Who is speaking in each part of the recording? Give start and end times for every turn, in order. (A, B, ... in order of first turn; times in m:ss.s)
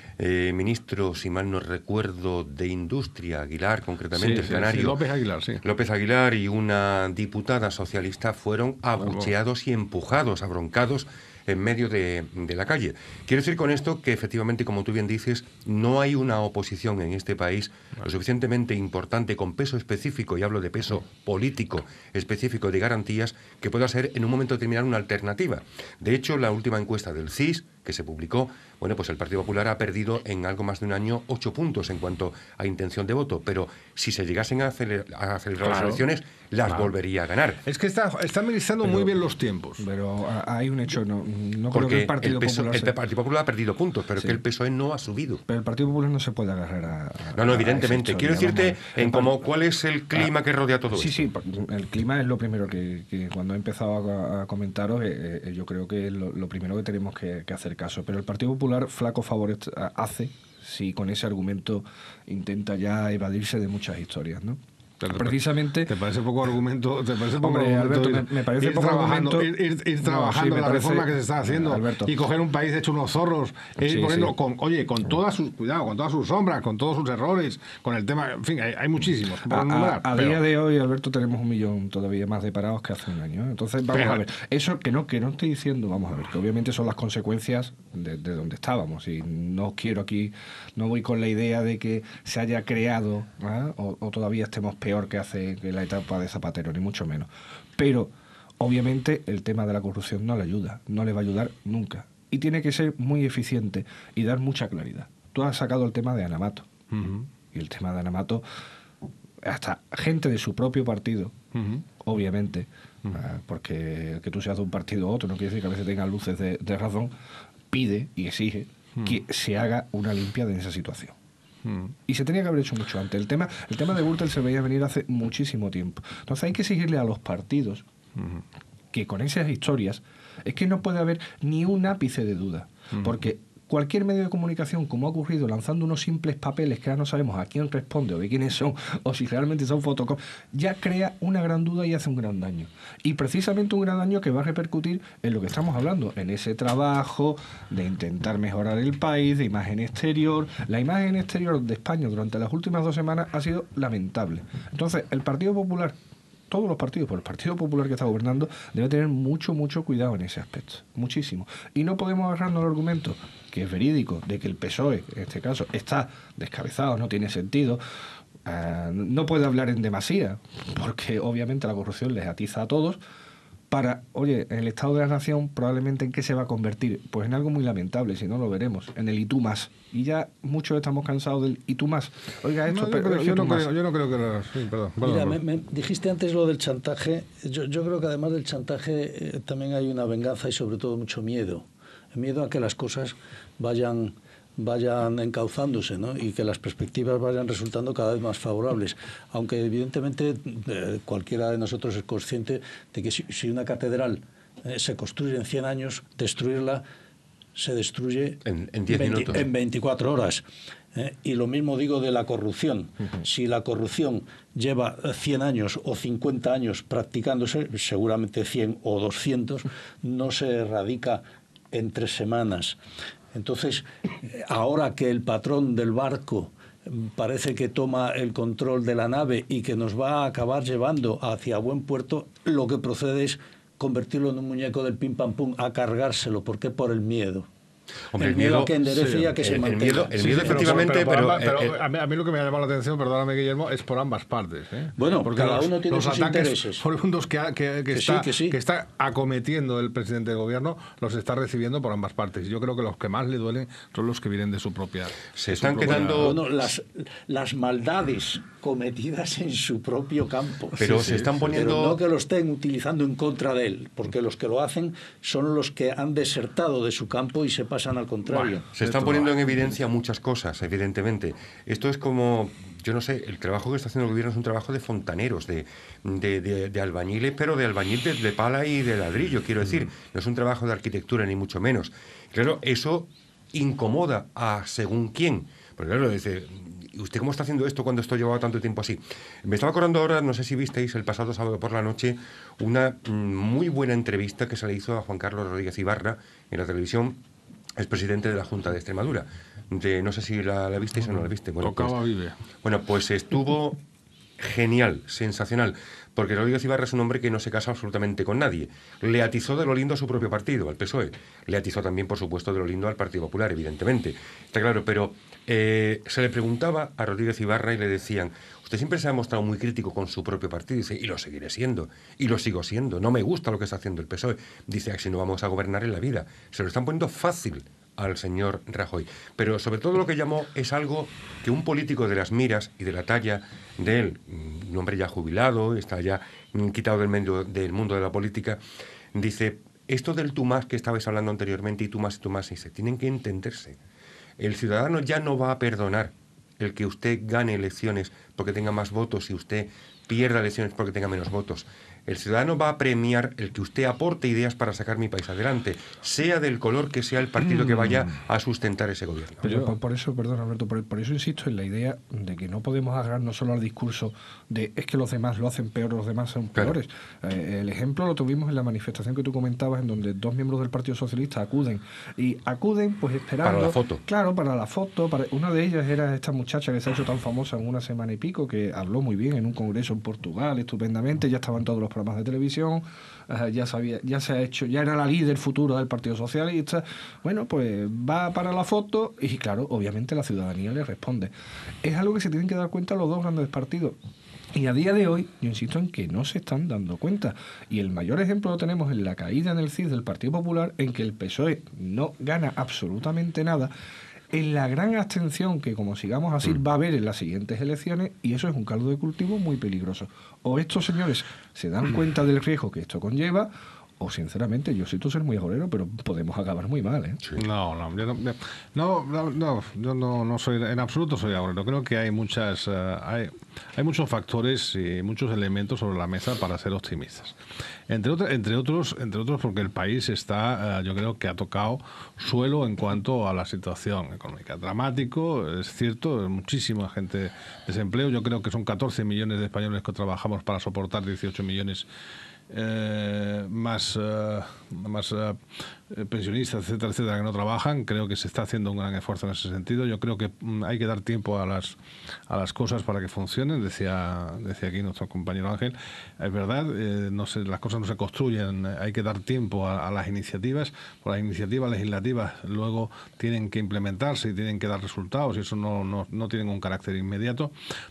0:00.2-0:05.0 A
0:04.1-0:05.6 B
0:05.6-0:37.6 A
0:09.0-0:09.3 B
0:35.6-0:36.1 B
0:37.6-0:39.8 B
0:39.8-0:42.9 C
0:41.7-0:45.4 A
0:45.5-0:49.4 C
0:47.3-0:51.3 A
0:50.9-1:06.0 C
1:05.0-1:20.4 B
1:07.4-1:12.1 C
1:13.8-1:14.3 C
1:19.4-1:46.7 C
1:23.9-1:24.2 B
1:46.9-1:47.3 B
1:47.5-1:48.4 C
1:49.4-1:51.4 C
1:51.5-1:51.8 B
1:52.0-1:57.1 C
1:57.7-2:01.1 C
2:01.6-2:02.0 B
2:02.1-2:07.8 C
2:08.2-2:08.4 B
2:08.9-2:36.0 C
2:36.5-2:47.8 C
2:48.4-2:53.0 C
2:53.7-3:03.7 C
3:02.7-3:05.4 B
3:05.0-3:26.8 D
3:27.5-3:42.8 D
3:28.4-3:29.5 A
3:43.3-3:57.5 D
3:58.1-3:58.8 A
3:58.2-4:00.9 D
3:58.9-3:59.3 B
3:59.4-4:01.8 A
4:00.2-4:16.4 B
4:05.0-4:06.8 D
4:07.9-4:08.6 D
4:15.3-4:16.4 A
4:15.9-4:28.6 D
4:20.8-4:22.0 A
4:20.8-4:21.6 B
4:28.3-4:29.7 B
4:28.7-4:57.2 A
4:57.8-5:02.0 A
5:01.0-5:02.4 B
5:02.6-5:03.8 A
5:04.4-5:38.6 A
5:39.1-5:43.8 A
5:44.4-5:59.6 A
5:59.4-6:31.3 C
5:59.4-5:59.7 B
6:13.4-6:14.0 A
6:31.8-6:34.0 C
6:34.5-6:43.7 C
6:44.3-6:57.2 C
6:57.4-7:21.8 B
7:22.5-7:31.8 B
7:32.3-7:47.5 B